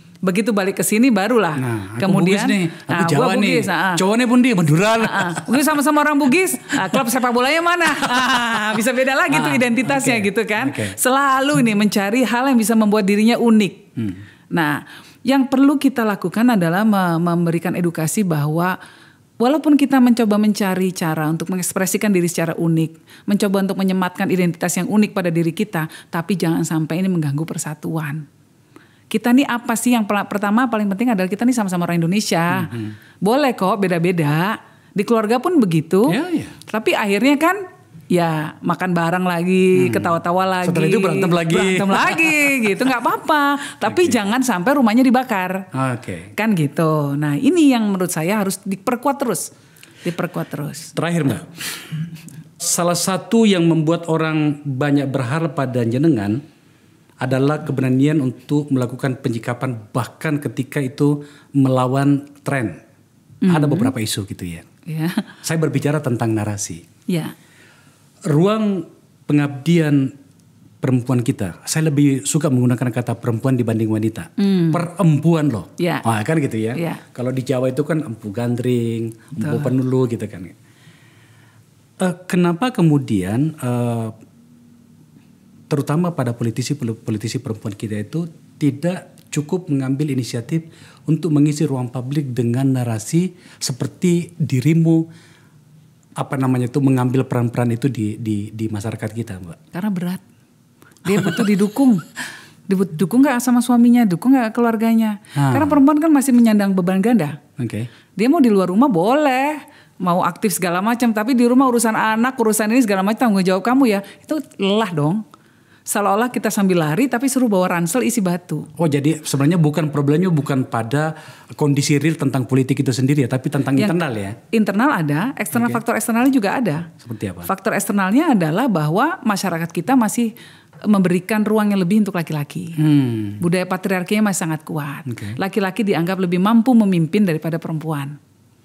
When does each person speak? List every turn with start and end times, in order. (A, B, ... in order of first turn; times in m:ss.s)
0:00.2-0:04.0 A
0:01.6-0:05.7 B
0:05.0-0:13.9 A
0:06.7-0:07.0 B
0:08.1-0:08.6 B
0:09.3-0:11.0 B
0:14.5-0:18.8 A
0:19.4-0:28.3 A
0:29.1-0:45.7 A
0:32.5-0:32.9 B
0:36.1-0:36.6 B
0:39.8-0:42.7 B
0:43.9-0:44.2 B
0:45.7-0:46.3 B
0:46.4-0:49.5 A
0:50.0-0:50.9 A
0:51.0-0:51.9 B
0:52.6-0:56.4 B
0:57.2-1:02.8 B
1:03.4-1:03.9 A
1:03.5-1:04.7 B
1:04.9-1:05.3 A
1:05.4-1:06.8 B
1:07.1-1:07.4 A
1:08.3-1:10.1 B
1:10.8-1:20.6 B
1:14.4-1:14.8 A
1:15.8-1:16.0 A
1:16.8-1:17.0 A
1:19.4-1:19.7 A
1:22.0-1:24.2 B
1:25.7-1:35.1 B
1:36.2-1:39.6 B
1:39.7-1:40.2 A
1:41.0-1:42.0 A
1:42.7-1:47.4 A
1:45.4-1:45.8 B
1:47.6-1:47.9 B
1:48.2-1:55.2 A
1:55.9-1:58.7 A
1:58.8-2:04.4 B
2:04.5-2:06.9 A
2:07.0-2:07.5 B
2:07.4-2:10.3 A
2:10.9-2:12.8 A
2:12.8-2:13.4 B
2:13.4-2:18.2 A
2:15.1-2:15.4 B